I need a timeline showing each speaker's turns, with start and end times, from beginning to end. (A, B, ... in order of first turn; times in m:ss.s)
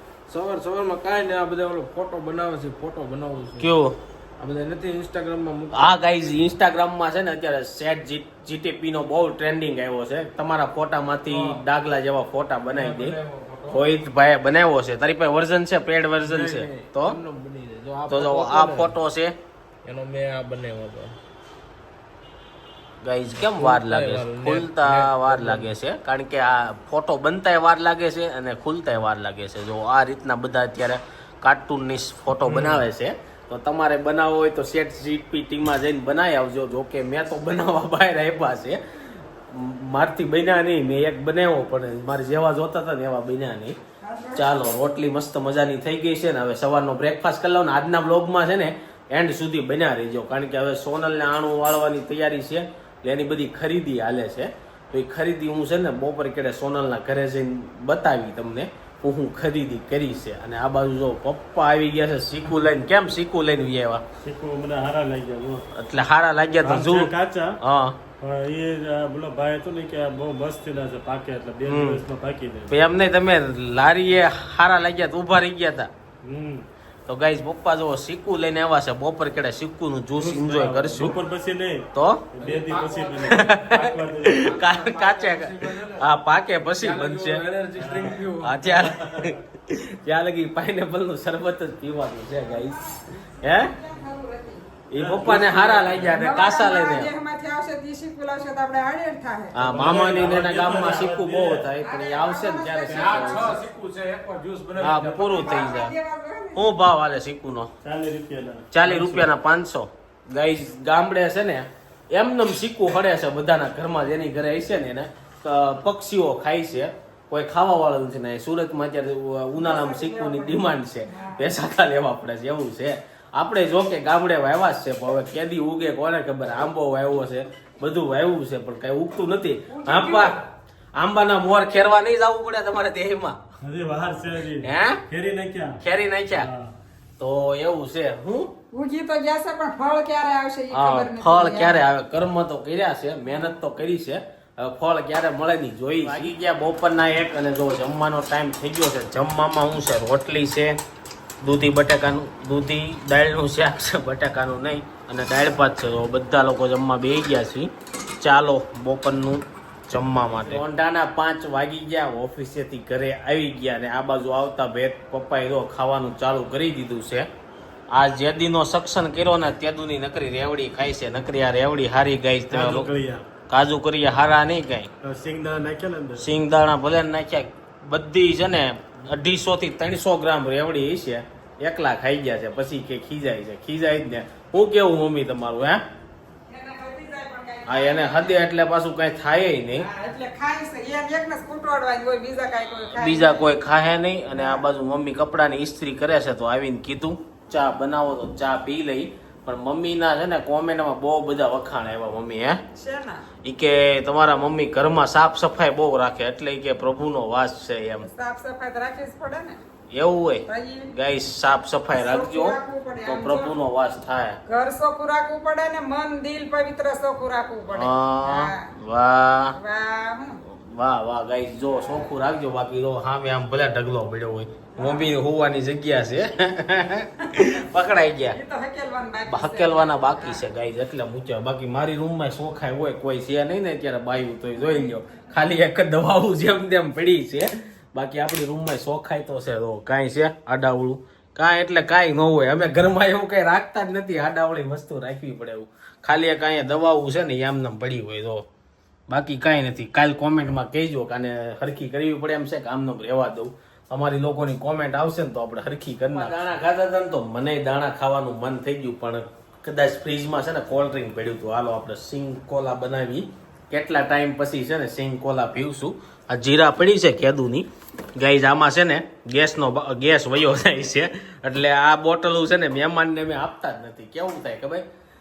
0:00.3-0:03.7 A
0:03.6-0:04.0 B
0:04.4-0:06.0 A
0:05.7-0:13.1 B
0:11.3-0:11.6 A
0:12.7-0:13.8 A
0:13.7-0:17.2 B
0:16.2-0:18.9 A
0:18.1-0:19.4 B
0:19.8-0:21.2 A
0:23.0-0:38.8 B
0:23.4-0:25.7 A
0:32.5-0:32.8 A
0:39.5-0:43.8 B
0:44.0-0:44.7 C
0:44.4-1:04.0 B
1:04.2-1:05.7 D
1:05.7-1:08.0 B
1:06.6-1:07.6 D
1:08.2-1:12.7 D
1:11.7-1:12.0 B
1:12.7-1:15.9 B
1:16.2-1:16.7 D
1:17.1-1:21.1 B
1:20.2-1:24.4 D
1:21.9-1:22.2 B
1:22.4-1:26.0 A
1:23.3-1:27.4 B
1:26.6-1:28.8 A
1:27.8-1:28.2 D
1:28.4-1:33.7 B
1:28.9-1:29.3 D
1:32.4-1:32.7 C
1:33.4-1:34.7 C
1:34.9-1:37.1 B
1:34.9-1:36.2 D
1:36.1-1:39.6 C
1:39.5-1:43.6 B
1:39.6-1:41.7 D
1:41.8-1:43.6 C
1:42.9-1:45.7 A
1:44.8-1:45.9 B
1:45.3-1:46.6 C
1:46.5-1:47.7 B
1:47.8-1:49.3 D
1:48.7-2:10.4 B
1:59.6-2:01.5 C
2:09.7-2:10.3 C
2:11.0-2:13.4 B
2:13.6-2:15.8 D
2:14.6-2:15.0 B
2:15.8-2:16.5 B
2:16.3-2:16.7 D
2:17.2-2:18.5 B
2:18.7-2:21.8 C
2:20.7-2:30.8 B
2:31.4-2:47.3 B
2:47.9-2:52.9 B
2:52.5-2:53.2 D
2:53.5-2:54.9 B
2:55.0-2:56.2 D
2:56.2-3:05.8 B
3:06.5-3:08.4 C
3:07.7-3:09.9 B
3:09.8-3:13.5 C
3:12.9-3:22.6 B
3:14.3-3:14.7 C
3:22.7-3:23.2 C
3:23.4-3:28.0 B
3:28.0-3:29.6 C
3:29.9-3:34.4 B
3:30.5-3:30.9 C
3:31.9-3:33.6 C
3:34.5-3:38.6 C
3:37.7-3:39.6 B
3:39.6-3:40.4 C
3:40.4-3:48.4 B
3:44.8-3:45.1 C
3:48.3-3:50.4 C
3:49.3-4:08.4 B
4:09.1-4:34.8 B